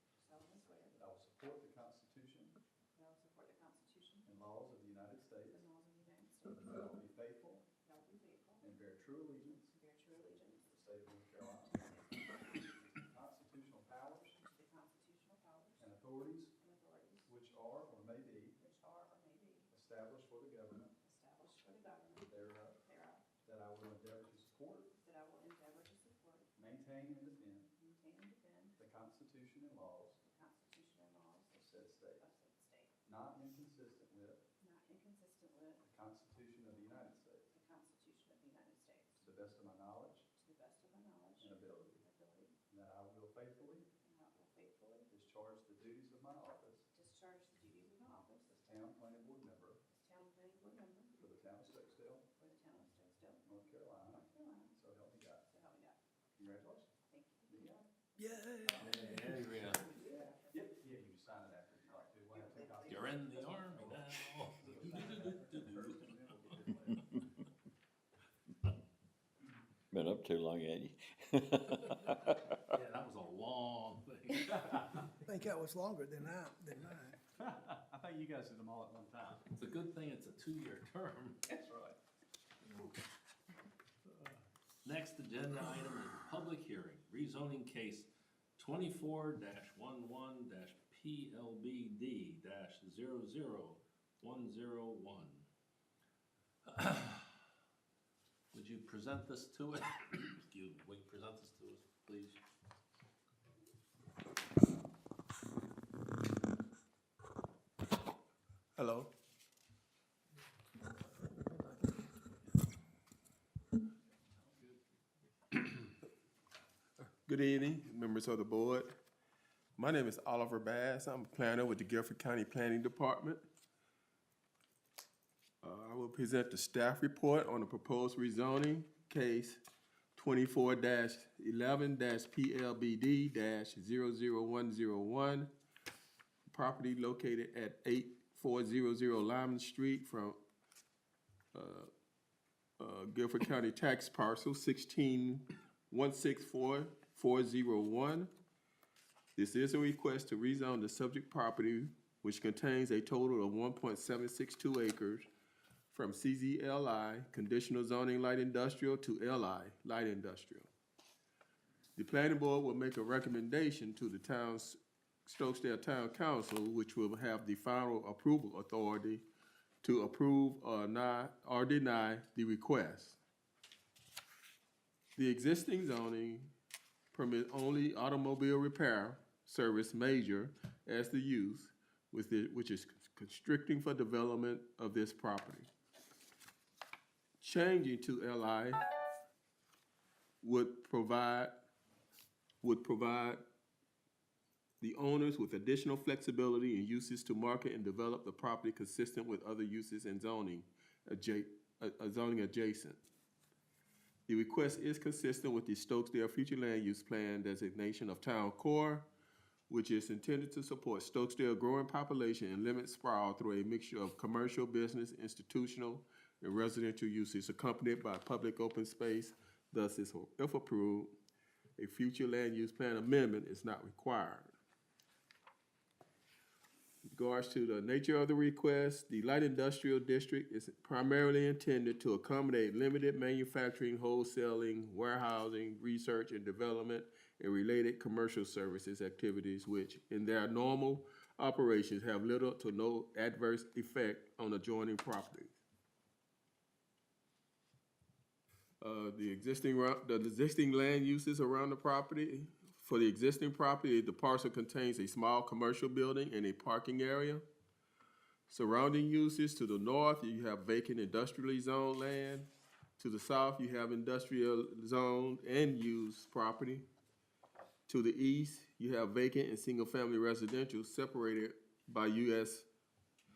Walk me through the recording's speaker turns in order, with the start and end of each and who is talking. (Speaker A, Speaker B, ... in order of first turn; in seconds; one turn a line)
Speaker A: 0.2-0.9
Speaker B: 0.9-2.6
Speaker A: 2.9-4.2
Speaker B: 4.2-5.7
Speaker A: 5.6-6.7
Speaker B: 6.5-7.7
Speaker A: 7.8-8.6
Speaker B: 8.6-9.7
Speaker A: 9.8-10.6
Speaker B: 10.7-14.4
Speaker A: 14.4-15.8
Speaker B: 15.8-16.6
Speaker A: 16.6-17.3
Speaker B: 17.2-18.6
Speaker A: 18.6-19.7
Speaker B: 19.7-20.9
Speaker A: 21.0-22.3
Speaker B: 22.2-22.8
Speaker A: 22.9-23.2
Speaker B: 23.4-24.9
Speaker A: 25.0-26.5
Speaker B: 26.6-27.7
Speaker A: 27.8-28.7
Speaker B: 28.8-30.2
Speaker A: 30.3-31.6
Speaker B: 31.5-32.3
Speaker A: 32.2-32.9
Speaker B: 33.0-34.4
Speaker A: 34.6-35.8
Speaker B: 35.8-37.5
Speaker A: 37.5-39.2
Speaker B: 39.2-40.3
Speaker A: 40.4-41.5
Speaker B: 41.4-42.0
Speaker A: 42.0-42.5
Speaker B: 42.7-43.9
Speaker A: 44.0-45.1
Speaker B: 45.1-46.9
Speaker A: 46.9-48.7
Speaker B: 48.6-49.8
Speaker A: 49.9-51.1
Speaker B: 51.1-52.3
Speaker A: 52.4-53.4
Speaker B: 53.4-55.5
Speaker A: 54.4-54.7
Speaker A: 55.5-56.0
Speaker B: 56.4-56.9
Speaker A: 57.1-57.5
Speaker B: 57.5-57.9
Speaker C: 58.2-58.8
Speaker B: 58.5-59.2
Speaker D: 58.8-60.0
Speaker B: 59.9-67.3
Speaker D: 62.9-65.9
Speaker E: 69.9-72.6
Speaker D: 72.7-75.1
Speaker C: 75.2-77.2
Speaker B: 77.4-79.4
Speaker D: 79.4-81.4
Speaker B: 81.6-82.0
Speaker D: 84.8-95.5
Speaker D: 96.7-97.4
Speaker D: 98.5-102.4
Speaker F: 108.8-109.1
Speaker D: 114.4-114.8
Speaker F: 117.0-119.0
Speaker F: 119.8-123.4
Speaker F: 125.6-129.6
Speaker F: 130.1-135.5
Speaker F: 136.5-140.4
Speaker F: 141.5-141.9
Speaker F: 142.8-148.3
Speaker F: 149.3-155.3
Speaker F: 155.9-160.7
Speaker F: 161.9-169.2
Speaker F: 169.8-173.2
Speaker F: 175.2-176.5
Speaker F: 177.1-185.7
Speaker F: 187.4-188.8
Speaker F: 190.4-191.6
Speaker F: 192.6-193.4
Speaker F: 194.8-203.0
Speaker F: 204.3-209.1
Speaker F: 209.7-221.1
Speaker F: 221.8-224.6
Speaker F: 227.1-245.6
Speaker F: 248.8-257.4
Speaker F: 258.5-266.8
Speaker F: 267.9-272.7